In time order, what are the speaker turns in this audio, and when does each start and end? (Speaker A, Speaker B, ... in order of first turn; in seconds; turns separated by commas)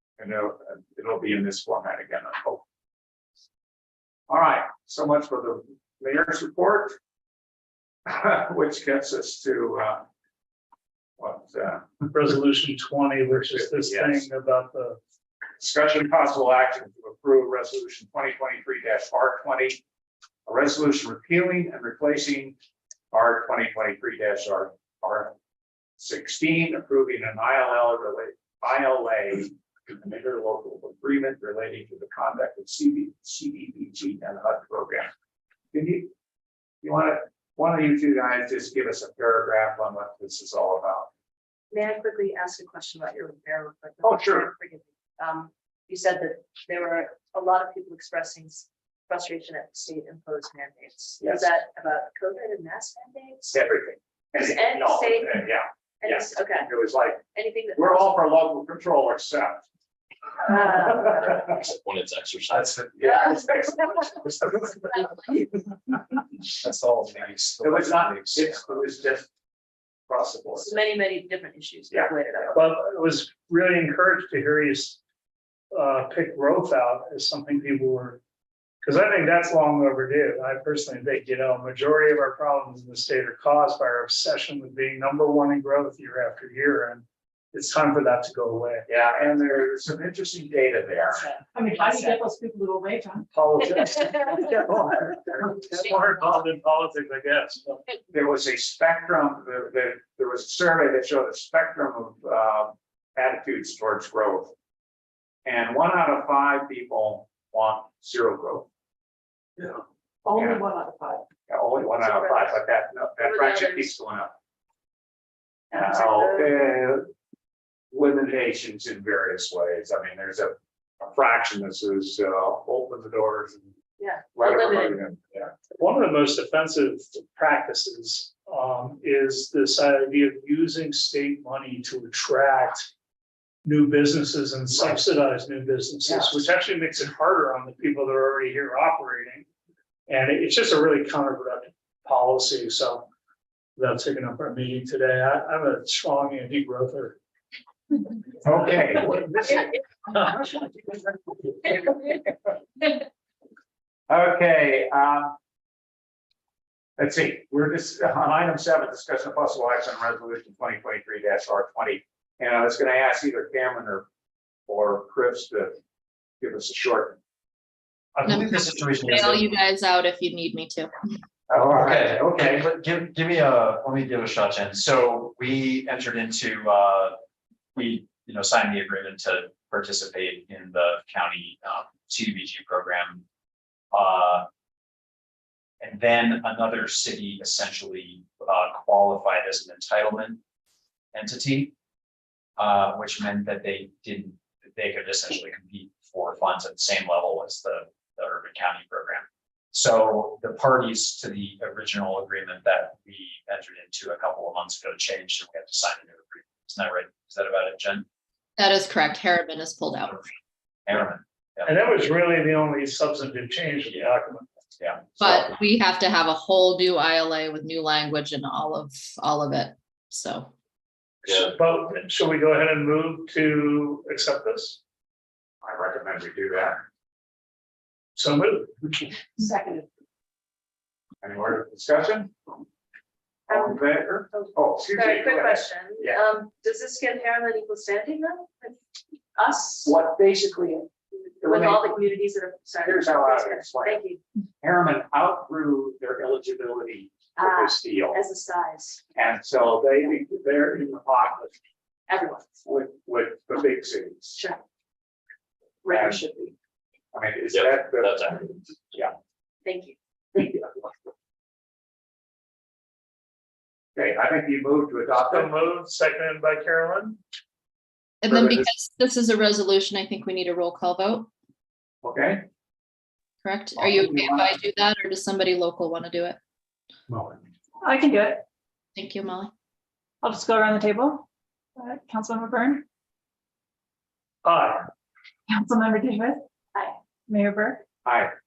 Speaker A: 0.2-2.6, Speaker A: 4.3-7.0, Speaker A: 8.1-10.1, Speaker A: 11.2-11.9, Speaker B: 12.1-15.0, Speaker A: 13.5-14.3, Speaker A: 15.6-19.8, Speaker A: 20.5-22.6, Speaker A: 23.1-25.3, Speaker A: 26.0-35.1, Speaker A: 35.7-36.1, Speaker A: 36.8-41.1, Speaker C: 41.7-53.6, Speaker A: 44.0-44.5, Speaker A: 51.2-51.5, Speaker A: 53.5-59.7, Speaker C: 54.4-55.5, Speaker C: 56.0-56.7, Speaker C: 57.3-58.2, Speaker C: 60.5-61.6, Speaker A: 60.5-61.6, Speaker D: 61.4-62.8, Speaker A: 62.5-65.6, Speaker C: 63.0-65.5, Speaker E: 66.6-68.8, Speaker A: 67.6-69.3, Speaker A: 70.1-70.8, Speaker C: 70.5-72.5, Speaker A: 71.9-72.6, Speaker B: 72.5-75.0, Speaker B: 75.7-78.2, Speaker B: 78.8-88.8, Speaker A: 88.9-91.3, Speaker C: 91.1-92.2, Speaker F: 91.5-93.3, Speaker B: 93.3-97.8, Speaker A: 98.1-104.5, Speaker A: 105.5-108.7, Speaker F: 110.3-111.2, Speaker A: 110.3-110.7, Speaker A: 111.5-114.4, Speaker C: 112.0-112.5, Speaker C: 113.2-113.9, Speaker C: 115.7-116.6, Speaker A: 115.7-117.1, Speaker A: 117.9-123.7, Speaker C: 124.0-125.0, Speaker A: 124.3-125.5, Speaker B: 125.8-132.9, Speaker B: 133.6-139.5, Speaker A: 134.8-135.0, Speaker A: 136.1-136.4, Speaker B: 140.1-143.1, Speaker B: 143.8-147.2, Speaker A: 148.4-150.9, Speaker B: 148.7-149.4, Speaker A: 151.4-152.2, Speaker A: 154.1-155.3, Speaker A: 157.0-164.1, Speaker A: 164.7-165.8, Speaker A: 166.4-167.2, Speaker E: 168.2-169.5, Speaker G: 168.2-170.9, Speaker A: 171.5-172.3, Speaker E: 171.5-177.2, Speaker E: 177.8-183.2, Speaker E: 183.9-184.5, Speaker E: 185.8-190.4, Speaker E: 191.1-191.7, Speaker E: 192.6-208.1, Speaker G: 208.6-210.2, Speaker E: 210.9-211.8, Speaker B: 211.7-214.5, Speaker E: 214.8-215.5, Speaker G: 215.2-220.5, Speaker D: 221.3-221.5, Speaker B: 221.3-224.8, Speaker A: 225.6-226.8, Speaker B: 228.2-229.2, Speaker A: 231.2-232.3, Speaker A: 233.5-236.2, Speaker C: 233.5-238.8, Speaker C: 239.3-239.9, Speaker A: 239.8-240.9, Speaker A: 241.4-242.0, Speaker C: 241.4-244.2, Speaker A: 242.8-244.0, Speaker A: 244.6-248.2, Speaker C: 247.4-249.0, Speaker A: 249.2-251.5, Speaker C: 252.1-252.5, Speaker A: 252.7-254.4, Speaker C: 254.3-254.6, Speaker C: 255.8-256.5, Speaker A: 255.9-256.2, Speaker A: 257.1-259.1, Speaker D: 257.5-258.5, Speaker C: 259.6-260.6, Speaker A: 263.9-265.5, Speaker B: 265.2-267.2, Speaker G: 268.2-271.3, Speaker A: 268.3-268.7, Speaker A: 272.0-272.4, Speaker G: 273.4-276.4, Speaker A: 273.8-274.6, Speaker A: 277.1-277.4, Speaker F: 277.8-278.4, Speaker G: 278.9-279.5, Speaker F: 280.2-281.3, Speaker F: 281.8-282.9, Speaker B: 284.4-284.9, Speaker F: 285.5-286.4, Speaker F: 287.3-287.8, Speaker A: 288.1-288.3